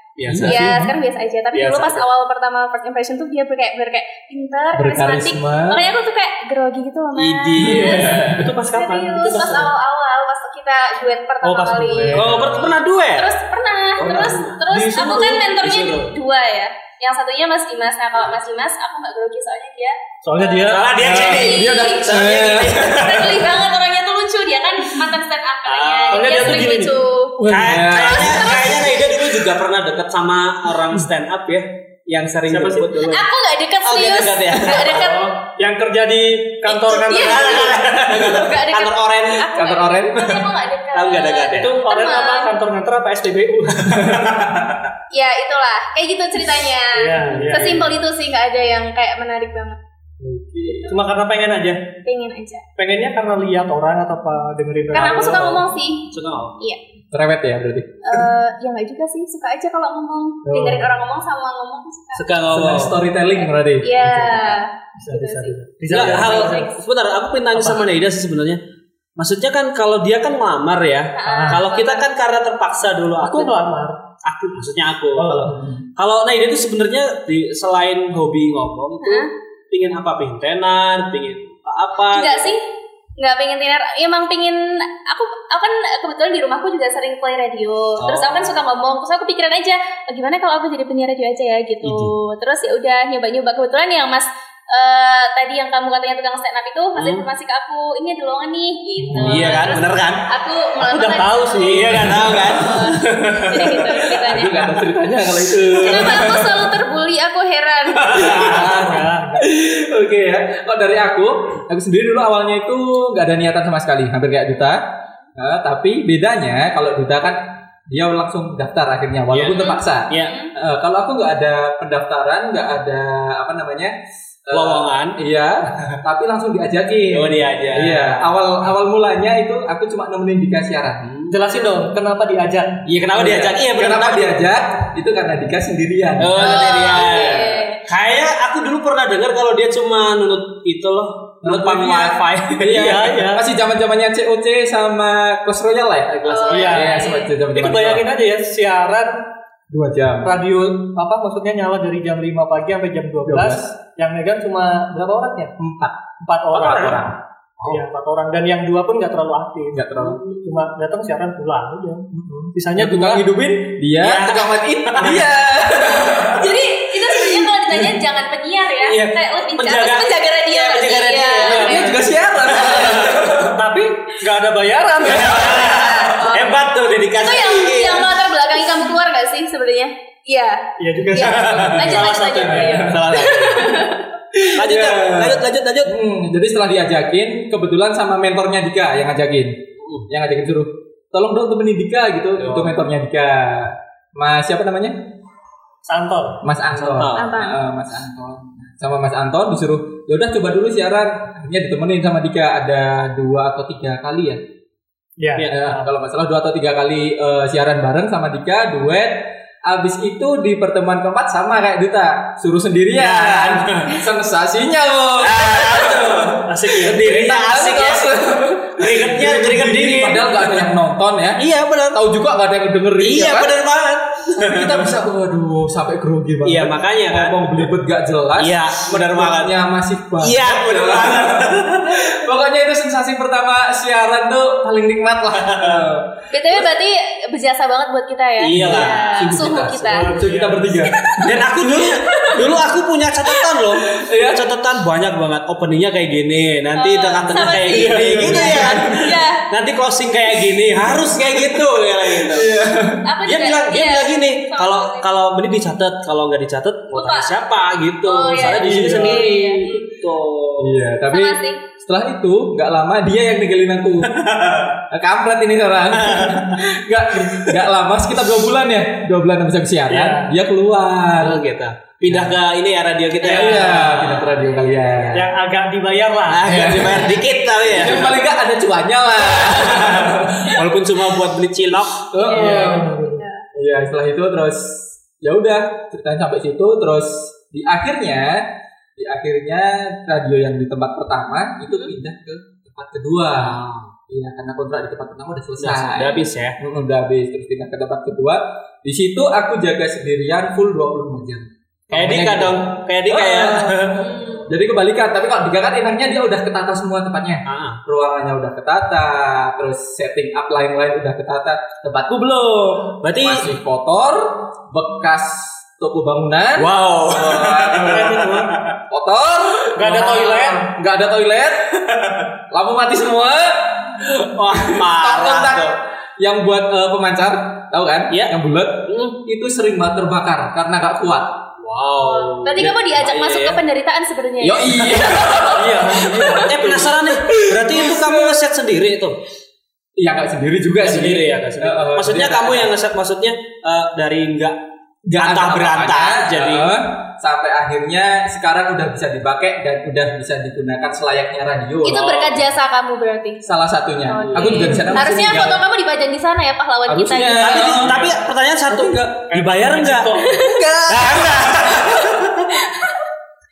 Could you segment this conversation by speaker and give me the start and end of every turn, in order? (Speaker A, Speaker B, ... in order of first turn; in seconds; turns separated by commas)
Speaker A: 0.2-0.7, Speaker B: 0.3-0.9, Speaker C: 0.4-0.8, Speaker D: 0.4-22.2, Speaker A: 1.5-2.0, Speaker B: 4.7-5.9, Speaker A: 7.2-8.4, Speaker B: 7.5-8.5, Speaker C: 8.2-9.7, Speaker C: 11.4-12.7, Speaker A: 12.1-13.4, Speaker A: 14.0-16.1, Speaker C: 20.2-21.4, Speaker A: 20.7-23.5, Speaker B: 21.0-23.3, Speaker D: 22.8-27.4, Speaker A: 25.6-26.7, Speaker C: 26.1-27.8, Speaker A: 27.5-33.3, Speaker B: 27.6-28.5, Speaker D: 27.9-29.4, Speaker C: 32.5-33.0, Speaker D: 33.0-35.3, Speaker A: 33.8-35.1, Speaker C: 34.9-38.3, Speaker D: 36.7-42.5, Speaker A: 37.1-39.5, Speaker B: 39.5-40.5, Speaker A: 40.9-41.7, Speaker C: 41.5-44.3, Speaker B: 44.0-44.3, Speaker A: 44.3-44.7, Speaker D: 45.1-49.8, Speaker C: 46.9-47.9, Speaker B: 47.2-47.9, Speaker B: 50.2-51.0, Speaker C: 50.9-51.8, Speaker D: 52.0-52.6, Speaker C: 52.8-55.6, Speaker D: 54.9-56.1, Speaker A: 56.1-56.5, Speaker B: 57.1-58.2, Speaker D: 58.0-62.3, Speaker C: 60.5-60.9, Speaker A: 62.1-63.0, Speaker B: 62.5-64.5, Speaker D: 63.3-66.8, Speaker C: 65.0-66.7, Speaker A: 65.9-68.6, Speaker C: 67.5-67.8, Speaker A: 69.2-73.6, Speaker D: 71.2-72.0, Speaker C: 71.2-71.6, Speaker C: 73.2-74.0, Speaker A: 74.2-82.6, Speaker C: 75.2-75.6, Speaker B: 75.5-75.8, Speaker D: 79.0-79.3, Speaker D: 82.1-82.6, Speaker D: 83.2-104.8, Speaker A: 88.0-88.6, Speaker A: 91.8-92.2, Speaker A: 97.0-97.3, Speaker C: 99.0-99.7, Speaker A: 99.2-100.2, Speaker C: 100.8-102.5, Speaker A: 101.6-104.0, Speaker B: 104.2-106.8, Speaker D: 105.7-108.7, Speaker B: 108.0-114.8, Speaker C: 108.1-109.5, Speaker B: 115.4-131.1, Speaker A: 119.3-120.4, Speaker D: 119.5-120.5, Speaker A: 124.5-125.2, Speaker A: 127.1-128.3, Speaker A: 131.0-131.3, Speaker C: 131.3-132.8, Speaker A: 132.9-134.5, Speaker B: 133.1-137.6, Speaker A: 136.2-143.1, Speaker D: 136.4-137.8, Speaker B: 141.4-148.1, Speaker C: 142.7-143.4, Speaker A: 146.2-146.7, Speaker D: 146.3-147.3, Speaker C: 146.5-149.1, Speaker B: 149.7-150.3, Speaker C: 150.2-155.5, Speaker B: 153.3-153.7, Speaker B: 155.6-156.0, Speaker C: 156.2-157.0, Speaker B: 156.5-157.8, Speaker C: 157.7-163.2, Speaker B: 159.7-160.2, Speaker A: 160.0-160.5, Speaker B: 162.1-167.9, Speaker A: 164.0-165.3, Speaker D: 166.3-172.0, Speaker A: 168.8-172.0, Speaker B: 171.5-173.6, Speaker A: 172.6-173.2, Speaker C: 173.3-176.1, Speaker A: 175.1-178.1, Speaker D: 176.1-176.5, Speaker D: 177.2-184.0, Speaker C: 180.8-183.0, Speaker B: 181.4-182.0, Speaker B: 182.5-182.9, Speaker A: 182.8-183.9, Speaker B: 184.4-189.6, Speaker A: 184.5-185.9, Speaker A: 189.8-190.1, Speaker B: 190.1-195.0, Speaker A: 192.4-192.8, Speaker C: 195.9-196.4, Speaker B: 196.4-204.4, Speaker A: 196.7-197.3, Speaker D: 197.1-197.6, Speaker C: 205.2-205.9, Speaker B: 205.5-223.6, Speaker A: 213.0-214.1, Speaker A: 215.2-218.1, Speaker C: 216.5-217.0, Speaker A: 218.8-220.7, Speaker A: 221.4-222.0, Speaker A: 223.0-224.9, Speaker B: 224.3-236.7, Speaker A: 226.4-227.7, Speaker A: 228.4-229.6, Speaker A: 230.2-232.2, Speaker A: 235.6-235.8, Speaker D: 236.3-240.1, Speaker A: 238.4-239.4, Speaker B: 238.5-241.1, Speaker C: 239.8-240.9, Speaker D: 241.0-242.4, Speaker A: 241.2-252.6, Speaker B: 244.0-244.4, Speaker D: 246.8-249.4, Speaker B: 247.7-249.2, Speaker B: 250.8-253.1, Speaker D: 253.0-255.1, Speaker A: 253.2-260.9, Speaker D: 256.9-257.3, Speaker D: 258.0-259.8, Speaker B: 258.3-259.2, Speaker C: 258.6-259.0, Speaker B: 260.6-264.2, Speaker D: 261.1-261.6, Speaker A: 264.1-264.8, Speaker B: 264.9-271.4, Speaker A: 265.9-266.6, Speaker A: 267.2-267.6, Speaker C: 269.9-270.3, Speaker A: 271.2-275.3, Speaker B: 272.1-272.4, Speaker B: 273.2-275.3, Speaker C: 273.3-274.0, Speaker C: 275.1-276.5, Speaker A: 276.3-278.2, Speaker B: 276.4-280.6, Speaker A: 279.4-282.1, Speaker B: 282.1-282.9, Speaker D: 282.2-283.4, Speaker C: 282.3-283.2, Speaker B: 283.6-288.4, Speaker B: 289.0-318.4, Speaker D: 291.7-291.9, Speaker A: 293.4-293.9, Speaker A: 295.6-296.6, Speaker A: 301.9-304.1, Speaker D: 304.1-304.4, Speaker A: 307.5-307.8, Speaker A: 313.0-313.5, Speaker A: 316.6-318.7, Speaker C: 317.9-318.5, Speaker B: 318.9-321.7, Speaker C: 319.8-320.7, Speaker A: 319.9-320.6, Speaker A: 321.9-322.2, Speaker B: 322.5-331.4, Speaker A: 324.1-325.8, Speaker A: 328.9-329.2, Speaker A: 331.6-333.6, Speaker D: 332.0-335.5, Speaker B: 334.4-338.4, Speaker C: 335.5-336.9, Speaker A: 336.3-339.2, Speaker B: 340.0-342.7, Speaker A: 340.8-344.6, Speaker B: 345.1-352.2, Speaker A: 345.1-346.8, Speaker D: 351.8-353.4, Speaker A: 351.8-352.4, Speaker B: 353.4-355.6, Speaker D: 354.1-357.9, Speaker A: 354.4-354.7, Speaker B: 356.9-358.2, Speaker A: 357.4-362.5, Speaker C: 358.7-360.5, Speaker D: 360.2-360.7, Speaker B: 360.6-362.0, Speaker D: 362.7-363.0